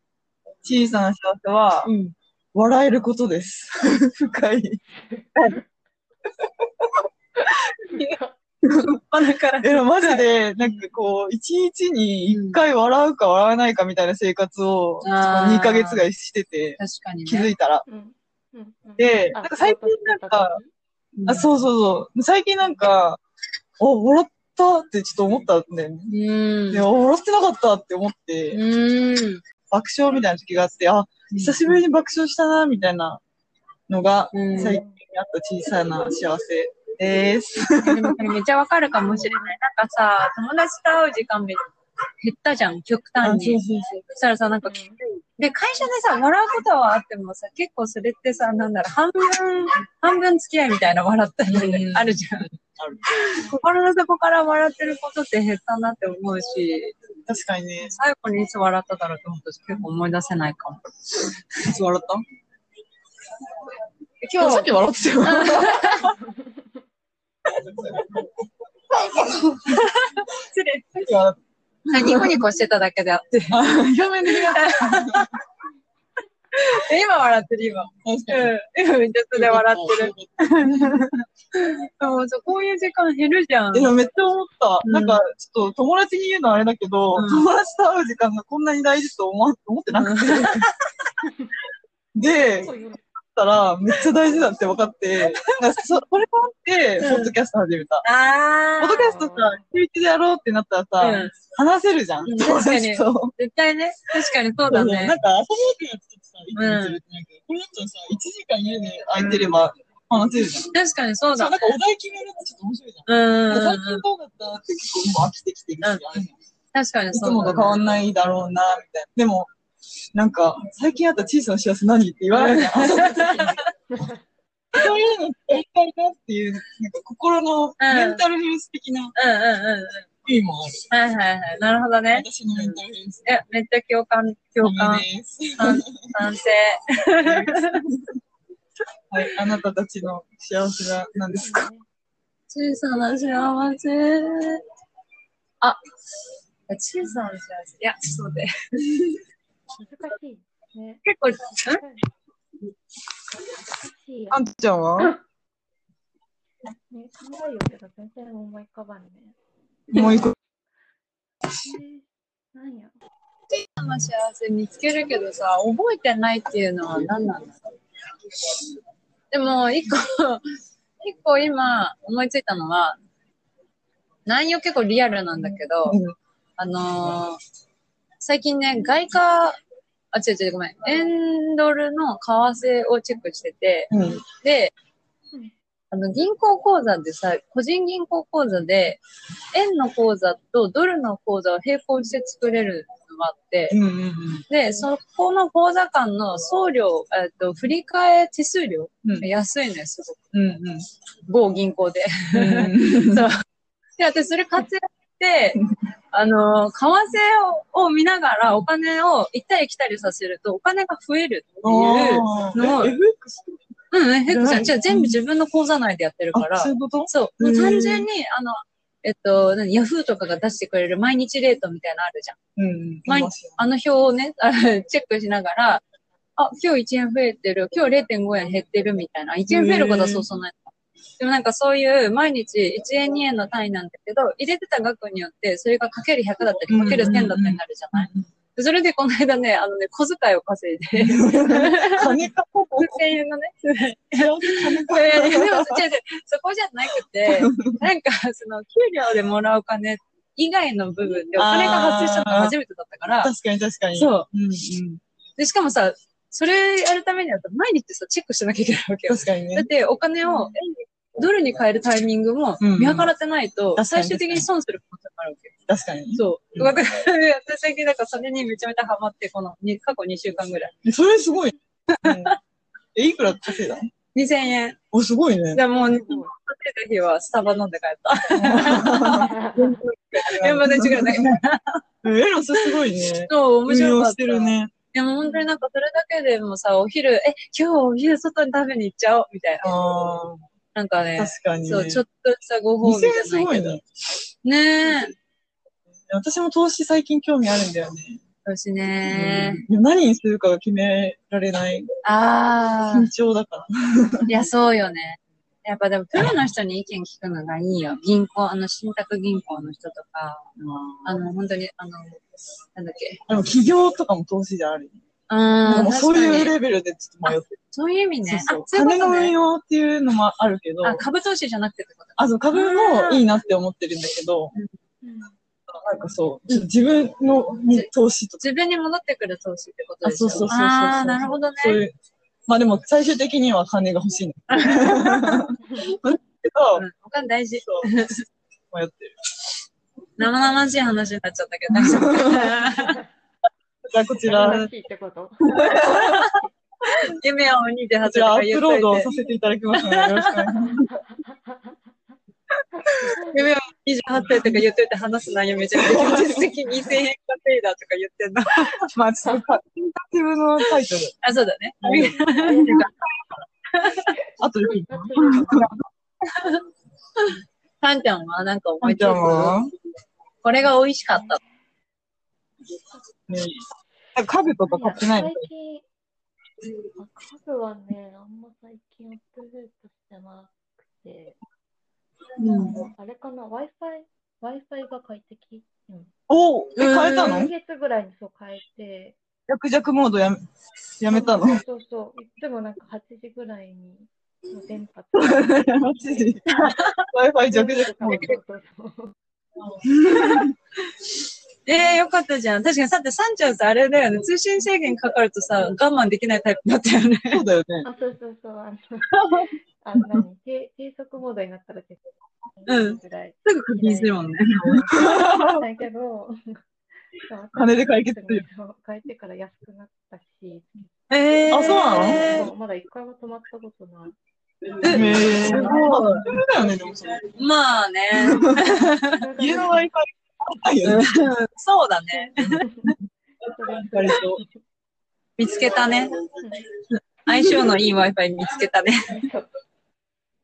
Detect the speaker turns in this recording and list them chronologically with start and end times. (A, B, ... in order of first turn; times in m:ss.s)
0:00.6-0:01.9 A
0:01.8-0:02.1 B
0:02.5-0:04.8 A
0:05.3-0:05.6 A
0:07.9-0:08.3 C
0:08.7-0:10.9 B
0:09.6-0:17.8 A
0:12.3-0:12.6 B
0:15.0-0:16.1 B
0:16.8-0:17.5 B
0:17.9-0:20.7 C
0:19.0-0:20.6 A
0:21.2-0:21.5 B
0:21.2-0:23.2 A
0:23.8-0:26.1 A
0:26.1-0:26.9 B
0:26.7-0:28.6 A
0:28.5-0:29.4 B
0:29.7-0:33.2 A
0:31.3-0:31.8 B
0:33.9-0:38.2 A
0:34.3-0:34.8 B
0:34.5-0:35.0 C
0:37.8-0:41.6 B
0:38.9-0:39.6 C
0:42.2-0:52.5 B
0:43.2-0:43.9 A
0:44.6-0:45.0 C
0:51.5-0:53.0 A
0:53.2-0:56.9 B
0:57.3-0:57.9 A
0:57.9-1:00.8 B
1:01.6-1:02.2 A
1:04.2-1:06.0 A
1:04.4-1:04.7 B
1:05.2-1:06.1 B
1:06.2-1:06.6 C
1:07.6-1:08.2 A
1:09.1-1:09.6 A
1:09.7-1:11.1 B
1:11.0-1:11.4 A
1:11.9-1:12.4 A
1:11.9-1:13.6 B
1:13.5-1:15.3 A
1:14.3-1:15.3 B
1:16.5-1:20.9 B
1:18.0-1:18.5 A
1:19.3-1:21.1 A
1:21.5-1:23.9 B
1:23.7-1:30.6 A
1:24.8-1:25.2 B
1:27.1-1:27.5 B
1:29.9-1:31.1 B
1:32.1-1:32.7 A
1:32.4-1:33.0 C
1:33.2-1:38.0 A
1:37.0-1:37.3 B
1:38.0-1:39.1 B
1:38.8-1:43.3 A
1:39.0-1:39.6 C
1:41.0-1:41.4 B
1:42.2-1:45.2 B
1:44.7-1:50.7 A
1:46.6-1:47.0 B
1:49.2-1:49.6 B
1:50.7-1:51.8 B
1:51.3-1:56.4 A
1:53.0-1:54.0 B
1:55.8-1:56.2 B
1:56.7-1:57.8 B
1:57.1-1:59.5 A
2:00.1-2:03.6 A
2:02.3-2:03.6 B
2:03.9-2:04.2 C
2:04.7-2:09.1 A
2:07.8-2:08.2 B
2:09.1-2:10.0 B
2:10.2-2:10.8 A
2:10.9-2:15.1 B
2:12.1-2:13.4 A
2:14.6-2:16.1 A
2:15.6-2:17.8 B
2:17.2-2:18.1 A
2:19.1-2:21.7 A
2:21.4-2:21.8 C
2:22.5-2:24.6 B
2:26.7-2:29.0 B
2:29.8-2:31.0 C
2:31.0-2:31.8 B
2:31.7-2:32.0 C
2:33.8-2:35.2 C
2:34.3-2:35.1 A
2:36.9-2:39.4 C
2:39.9-2:40.3 A
2:41.6-2:42.9 C
2:43.5-2:47.5 B
2:49.3-2:50.4 B
2:51.0-2:53.0 B
2:54.2-2:56.0 B
2:55.8-2:56.1 A
2:56.6-2:57.4 B
2:58.2-2:59.6 B
3:00.1-3:04.7 B
3:03.9-3:04.2 A
3:05.9-3:09.0 B
3:09.5-3:13.8 B
3:13.7-3:14.4 A
3:14.5-3:20.3 B
3:20.3-3:20.8 A
3:21.3-3:23.3 B
3:22.3-3:23.2 A
3:24.0-3:25.6 B
3:26.1-3:33.0 B
3:31.6-3:33.6 A
3:33.9-3:42.4 B
3:34.3-3:35.2 A
3:36.3-3:38.1 A
3:42.6-3:43.6 A
3:43.0-3:45.8 B
3:46.4-4:02.2 B
3:49.5-3:50.2 A
3:56.7-3:58.2 A
4:01.0-4:03.1 A
4:02.8-4:13.3 B
4:04.1-4:05.8 A
4:07.2-4:07.8 A
4:11.4-4:12.6 A
4:13.2-4:15.0 A
4:13.9-4:14.3 B
4:15.4-4:25.5 B
4:19.1-4:19.7 A
4:22.6-4:23.1 A
4:23.8-4:24.5 A
4:25.7-4:26.7 A
4:26.1-4:30.7 B
4:30.8-4:32.3 A
4:31.9-4:32.4 B
4:32.9-4:33.9 A
4:34.1-4:34.8 B
4:34.9-4:35.6 A
4:35.5-4:41.8 B
4:35.8-4:36.3 C
4:38.3-4:39.3 A
4:39.2-4:39.8 C
4:40.2-4:41.3 A
4:42.0-4:44.7 A
4:42.6-4:49.7 B
4:45.2-4:45.6 C
4:49.6-4:50.4 A
4:50.7-4:53.8 B
4:51.2-4:52.0 A
4:52.8-4:53.8 A
4:54.4-4:55.1 B
4:56.1-4:58.2 A
4:58.4-4:59.7 B
4:59.0-5:01.9 A
5:02.0-5:03.1 B
5:02.9-5:04.5 A
5:04.3-5:10.5 B
5:10.6-5:11.2 A
5:11.0-5:13.2 B
5:13.3-5:15.0 A
5:15.3-5:16.5 B
5:15.6-5:17.5 A
5:17.2-5:19.3 B
5:18.2-5:21.0 A
5:20.8-5:23.2 B
5:22.2-5:24.5 A
5:25.0-5:25.4 C
5:25.7-5:28.4 A
5:27.7-5:31.8 B
5:30.0-5:31.9 A
5:32.5-5:36.8 A
5:34.5-5:35.4 B
5:36.7-5:38.2 B
5:37.6-5:37.9 A
5:38.7-5:39.1 A
5:40.2-5:43.0 B
5:41.7-5:42.5 A
5:42.8-5:43.0 C
5:43.9-5:44.6 A
5:44.3-5:46.5 C
5:44.4-5:44.7 B
5:45.6-5:46.0 A
5:45.9-5:49.1 B
5:48.0-5:50.9 A
5:49.8-5:50.4 B
5:50.7-5:51.9 C
5:52.7-5:53.6 C
5:53.0-5:59.4 B
5:54.2-5:54.6 A
5:55.8-5:56.4 A
5:58.9-6:01.1 A
6:01.2-6:02.9 B
6:01.8-6:02.9 A
6:01.9-6:03.0 C
6:03.7-6:04.1 B
6:04.4-6:05.7 A
6:04.9-6:05.7 C
6:06.3-6:06.6 B
6:07.8-6:09.6 B
6:08.8-6:09.7 A
6:10.4-6:11.4 B
6:11.1-6:11.5 C
6:13.3-6:13.6 A
6:14.1-6:15.5 A
6:14.6-6:15.8 C
6:17.0-6:21.4 C
6:22.4-6:22.9 B
6:22.7-6:26.1 C
6:26.3-6:27.5 A
6:26.8-6:27.5 B
6:27.1-6:29.2 C
6:29.5-6:30.4 A
6:31.0-6:31.6 A
6:31.1-6:36.3 C
6:35.1-6:38.4 A
6:36.6-6:37.0 B
6:37.5-6:39.1 C
6:38.1-6:38.4 B
6:39.8-6:40.5 A
6:40.1-6:40.5 B
6:41.6-6:47.4 B
6:47.3-6:47.9 A
6:47.8-6:56.3 C
6:49.1-6:49.5 B
6:50.0-6:50.2 A
6:52.7-6:54.8 B
6:54.6-6:55.5 A
6:57.1-7:00.9 C
6:57.6-6:58.4 A
7:01.1-7:02.5 B
7:01.5-7:02.4 A
7:01.7-7:04.2 C
7:04.8-7:06.2 B
7:04.9-7:07.3 A
7:04.9-7:05.9 C
7:07.3-7:09.2 B
7:08.2-7:08.4 A
7:09.1-7:09.9 C
7:09.4-7:11.1 A
7:10.8-7:12.6 B
7:12.1-7:14.6 C
7:13.9-7:14.4 A
7:15.4-7:16.2 B
7:16.4-7:16.6 C
7:17.2-7:19.2 B
7:19.1-7:19.5 C